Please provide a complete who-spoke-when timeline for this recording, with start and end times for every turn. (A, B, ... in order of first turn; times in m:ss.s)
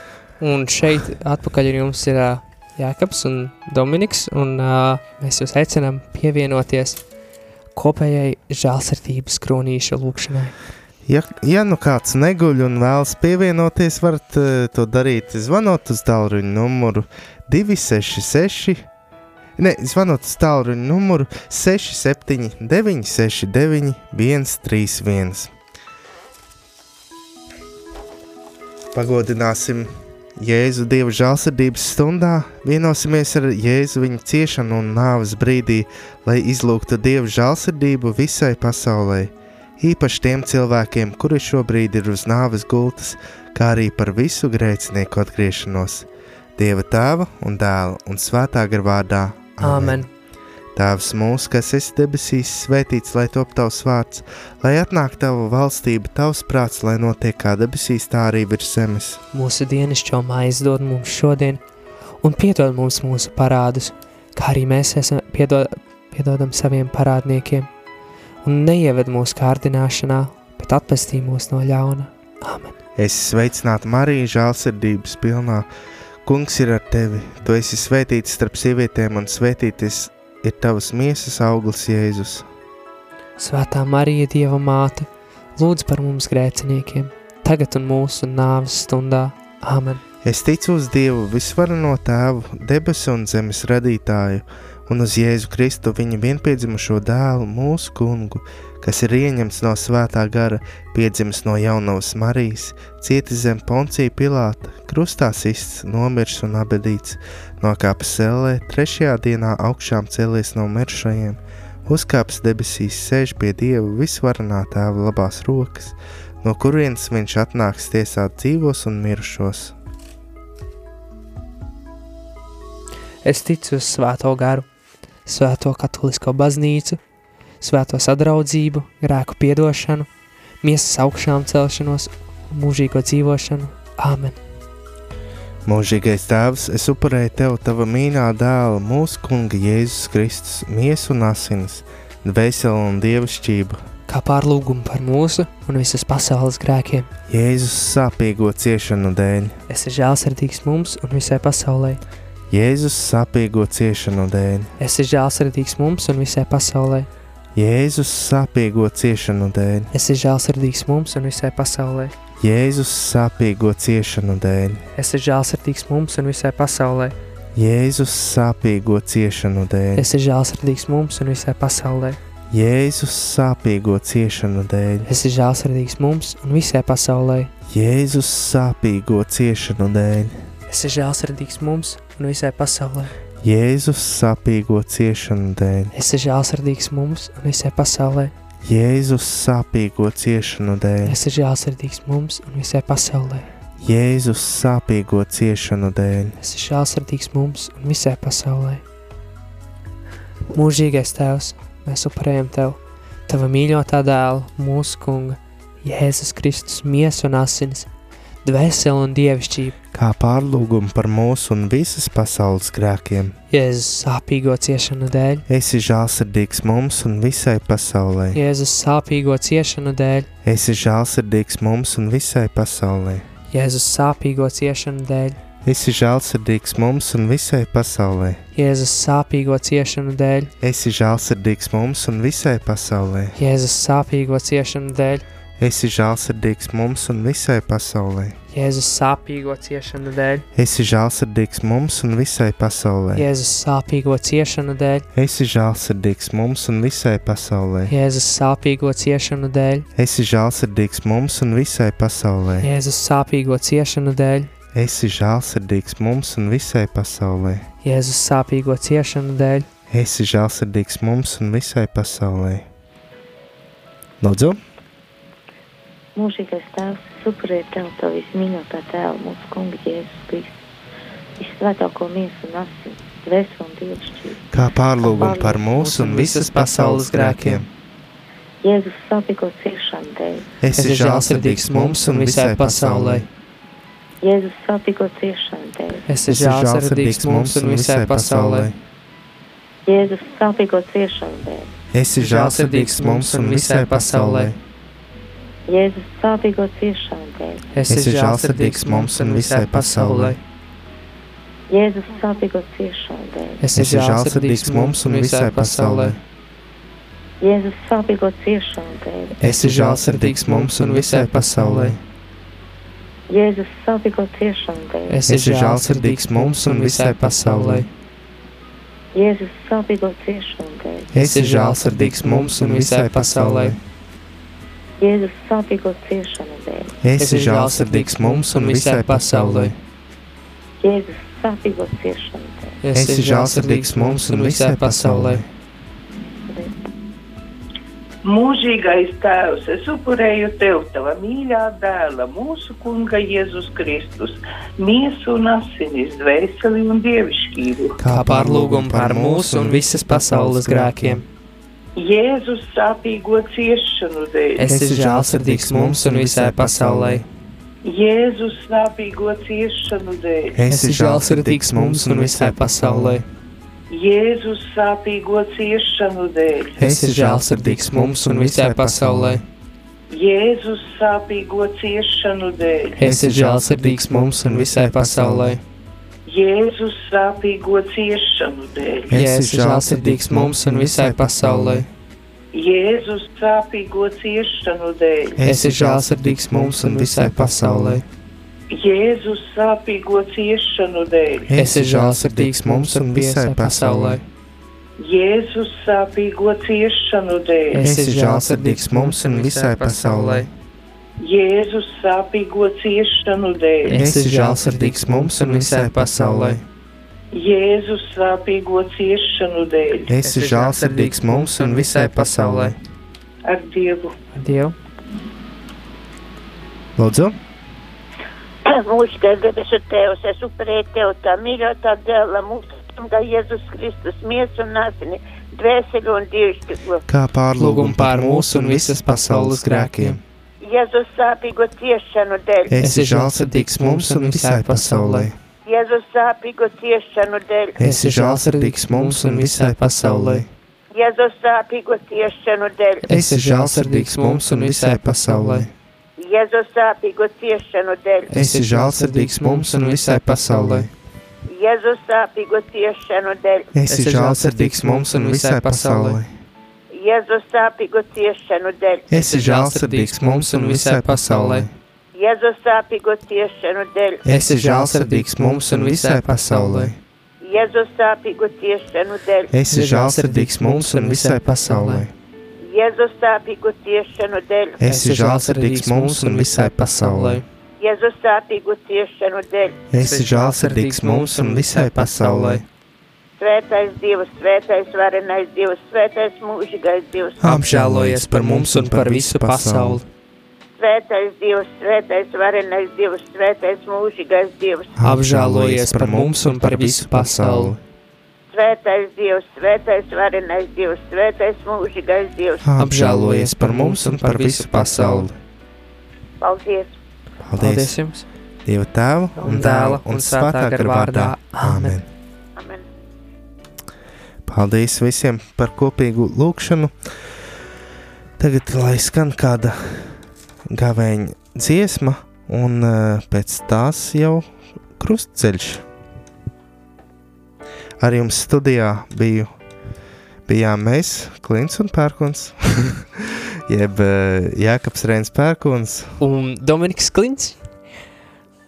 0:00.4-0:07.0 A
0:07.7-0:10.5 A
0:11.0-0:18.8 B
0:19.6-0:25.5 B
0:28.9-0:50.0 B
0:49.6-0:50.1 A
0:50.7-0:59.2 B
0:59.3-1:01.6 A
1:02.2-1:07.7 A
1:08.4-1:12.8 A
1:13.0-1:15.7 B
1:16.2-1:22.5 B
1:23.4-1:30.0 A
1:30.2-1:59.7 B
2:03.2-2:04.7 A
2:05.2-2:07.0 A
2:07.6-2:10.1 A
2:10.6-2:14.4 A
2:15.6-2:23.8 B
2:24.1-2:27.1 A
2:27.3-2:29.6 B
2:29.7-2:32.0 A
2:32.5-2:34.7 B
2:34.8-2:37.1 A
2:37.5-2:39.9 B
2:39.9-2:42.1 A
2:42.4-2:44.8 B
2:45.0-2:47.2 A
2:47.5-2:50.1 B
2:49.9-2:52.2 A
2:52.5-2:55.1 B
2:55.0-2:57.5 A
2:57.7-3:00.4 B
3:00.7-3:03.1 A
3:03.4-3:05.9 B
3:05.9-3:08.3 A
3:08.6-3:11.2 B
3:11.0-3:13.4 A
3:13.8-3:16.4 B
3:16.4-3:18.8 A
3:20.5-3:27.9 A
3:28.4-3:29.7 A
3:29.9-3:33.3 B
3:33.5-3:35.4 A
3:35.5-3:38.4 B
3:38.3-3:40.3 A
3:40.4-3:43.2 B
3:43.5-3:45.4 A
3:45.6-3:48.4 B
3:48.5-3:50.5 A
3:50.6-3:53.4 B
3:53.3-3:55.2 A
3:55.6-3:58.4 B
3:58.5-4:00.4 A
4:00.5-4:03.3 B
4:03.1-4:05.0 A
4:05.1-4:07.9 B
4:07.9-4:09.8 A
4:09.9-4:12.7 B
4:12.6-4:14.5 A
4:14.7-4:17.6 B
4:17.8-4:19.7 A
4:19.9-4:22.6 B
4:24.2-4:24.6 B
4:26.1-4:30.5 C
4:31.4-4:34.4 C
4:34.5-4:37.7 B
4:35.0-4:35.6 C
4:35.7-4:37.6 A
4:38.6-4:40.5 C
4:40.6-4:43.3 B
4:40.7-4:43.3 A
4:44.2-4:46.0 C
4:46.0-4:48.7 A
4:46.3-4:48.8 B
4:49.8-4:51.7 C
4:51.9-4:54.6 B
4:52.2-4:54.5 A
4:55.7-4:57.7 C
4:57.7-5:00.4 A
4:57.9-5:00.4 B
5:01.7-5:03.6 C
5:03.6-5:06.2 A
5:03.8-5:06.2 B
5:07.4-5:09.4 C
5:09.4-5:12.0 A
5:09.4-5:12.0 B
5:13.3-5:15.2 C
5:15.1-5:17.9 A
5:15.3-5:17.9 B
5:19.1-5:21.1 C
5:21.1-5:23.8 B
5:21.1-5:23.8 A
5:25.0-5:27.0 C
5:27.0-5:29.7 B
5:27.2-5:29.7 A
5:30.8-5:32.8 C
5:32.8-5:35.4 A
5:32.9-5:35.4 B
5:38.2-5:48.0 D
5:48.0-5:51.2 B
5:48.1-5:51.2 A
5:52.0-5:54.7 D
5:54.6-5:57.2 A
5:54.7-5:57.2 B
5:57.8-6:00.6 D
6:00.5-6:03.2 B
6:00.7-6:03.2 A
6:03.9-6:06.7 D
6:06.8-6:09.4 B
6:06.8-6:09.4 A
6:10.1-6:13.0 D
6:13.0-6:15.6 A
6:13.0-6:15.6 B
6:16.2-6:19.1 D
6:19.1-6:21.9 B
6:19.1-6:21.8 A
6:22.5-6:25.4 D
6:25.4-6:28.0 B
6:25.4-6:28.0 A
6:28.7-6:31.5 D
6:31.5-6:34.2 B
6:31.5-6:34.2 A
6:35.0-6:37.8 D
6:37.7-6:40.5 A
6:37.8-6:40.5 B
6:41.2-6:44.0 D
6:43.9-6:46.6 A
6:43.9-6:46.6 B
6:47.3-6:50.1 D
6:50.1-6:52.8 B
6:50.1-6:52.7 A
6:53.4-6:54.1 D
6:54.3-6:54.7 A
6:57.0-6:57.4 B
6:58.7-7:07.0 E
7:07.1-7:10.2 B
7:07.5-7:10.2 A
7:10.6-7:12.7 E
7:12.7-7:15.3 B
7:12.7-7:15.3 A
7:15.6-7:17.8 E
7:17.8-7:20.5 B
7:17.8-7:20.4 A
7:20.9-7:23.0 E
7:23.0-7:25.7 A
7:23.1-7:25.7 B
7:26.2-7:28.3 E
7:28.3-7:30.9 B
7:28.3-7:30.9 A
7:31.5-7:33.7 E
7:33.7-7:36.3 B
7:33.9-7:36.2 A
7:36.9-7:39.3 E
7:39.1-7:41.7 B
7:39.3-7:41.7 A
7:42.1-7:44.2 E
7:44.2-7:47.0 B
7:44.2-7:46.9 A
7:47.4-7:49.5 E
7:49.5-7:52.1 B
7:49.7-7:52.0 A
7:52.6-7:54.8 E
7:54.8-7:57.4 B
7:54.8-7:57.4 A
7:57.8-7:59.8 E
7:59.9-8:02.6 B
8:00.0-8:02.6 A
8:03.4-8:07.4 E
8:07.4-8:10.0 B
8:07.4-8:10.0 A
8:10.8-8:14.9 E
8:15.0-8:17.8 B
8:15.0-8:17.7 A
8:18.5-8:22.6 E
8:22.6-8:25.4 B
8:22.8-8:25.3 A
8:26.4-8:26.9 E
8:27.4-8:28.0 B
8:27.6-8:28.2 A
8:28.6-8:32.1 B
8:29.4-8:32.0 A
8:32.6-8:32.8 E
8:34.5-8:36.9 B
8:38.4-8:40.1 B
8:40.7-8:44.5 B
8:45.0-8:45.8 B
8:48.0-8:49.5 B
8:50.5-8:56.2 B
8:56.2-8:57.6 A